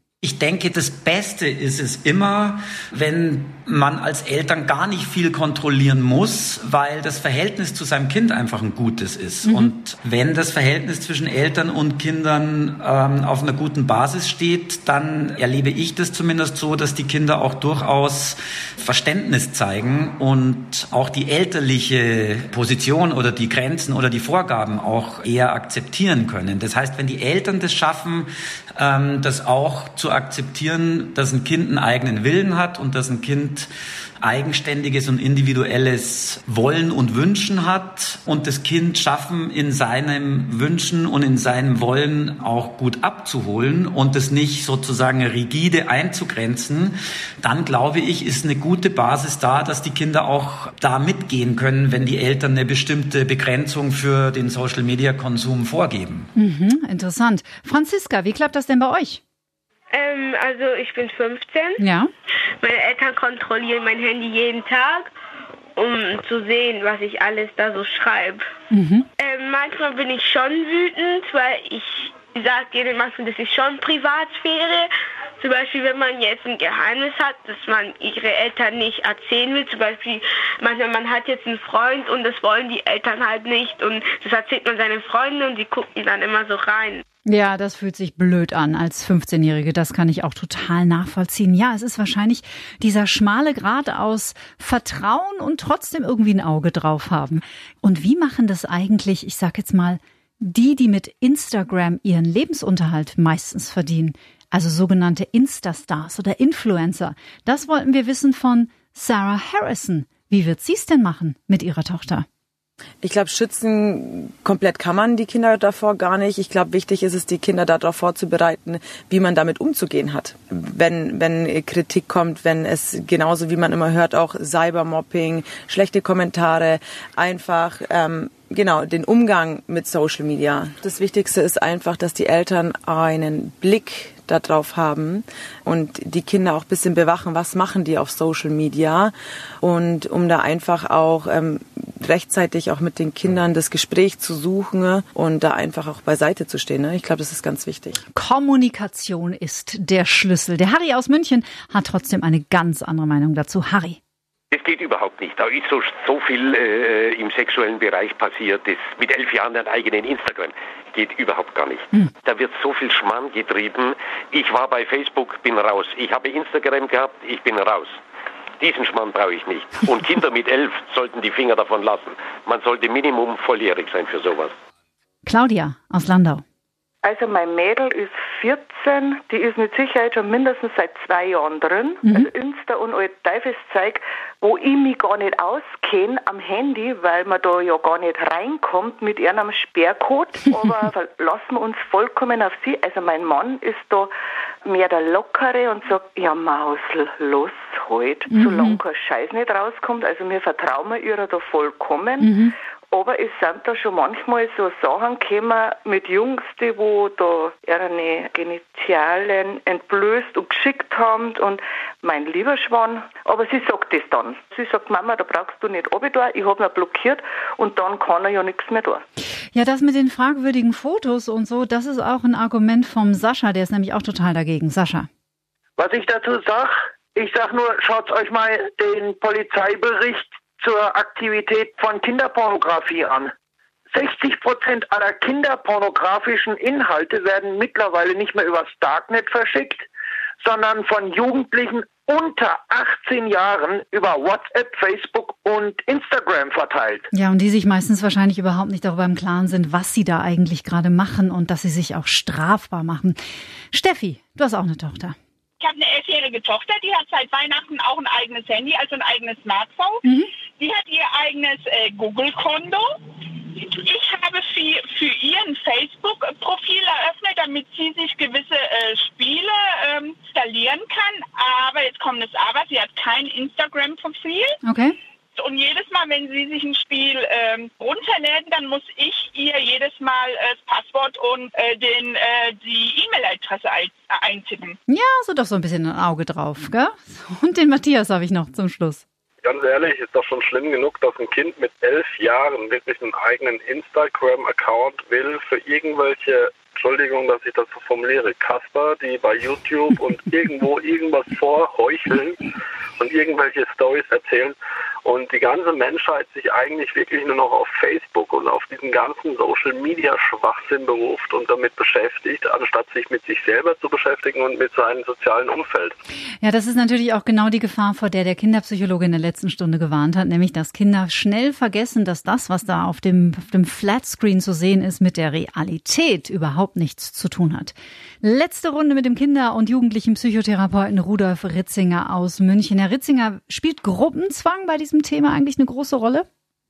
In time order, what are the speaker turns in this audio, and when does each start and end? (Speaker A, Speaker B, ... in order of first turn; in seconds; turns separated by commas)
Speaker A: 0.2-33.7, Speaker B: 9.4-9.7, Speaker A: 34.2-56.3, Speaker B: 56.4-59.2, Speaker C: 59.9-61.8, Speaker B: 61.8-62.1, Speaker C: 62.6-65.1, Speaker C: 65.8-68.5, Speaker B: 68.7-69.1, Speaker C: 69.2-87.0, Speaker B: 87.3-112.3, Speaker D: 113.0-148.0, Speaker B: 148.1-154.0, Speaker E: 154.5-168.0, Speaker E: 168.6-174.5, Speaker B: 175.2-176.4, Speaker F: 177.0-194.1, Speaker B: 182.0-182.3, Speaker F: 194.6-202.3, Speaker B: 198.3-198.8, Speaker B: 202.2-202.5, Speaker F: 202.9-219.0, Speaker B: 219.5-225.1, Speaker G: 225.8-233.3, Speaker G: 233.9-239.9, Speaker G: 240.4-247.1, Speaker B: 247.1-253.2, Speaker B: 253.7-255.2, Speaker H: 255.6-260.1, Speaker H: 260.6-274.6, Speaker B: 274.6-275.0, Speaker H: 275.4-284.8, Speaker B: 284.9-289.0, Speaker I: 289.4-302.4, Speaker I: 303.0-315.9, Speaker B: 316.4-336.3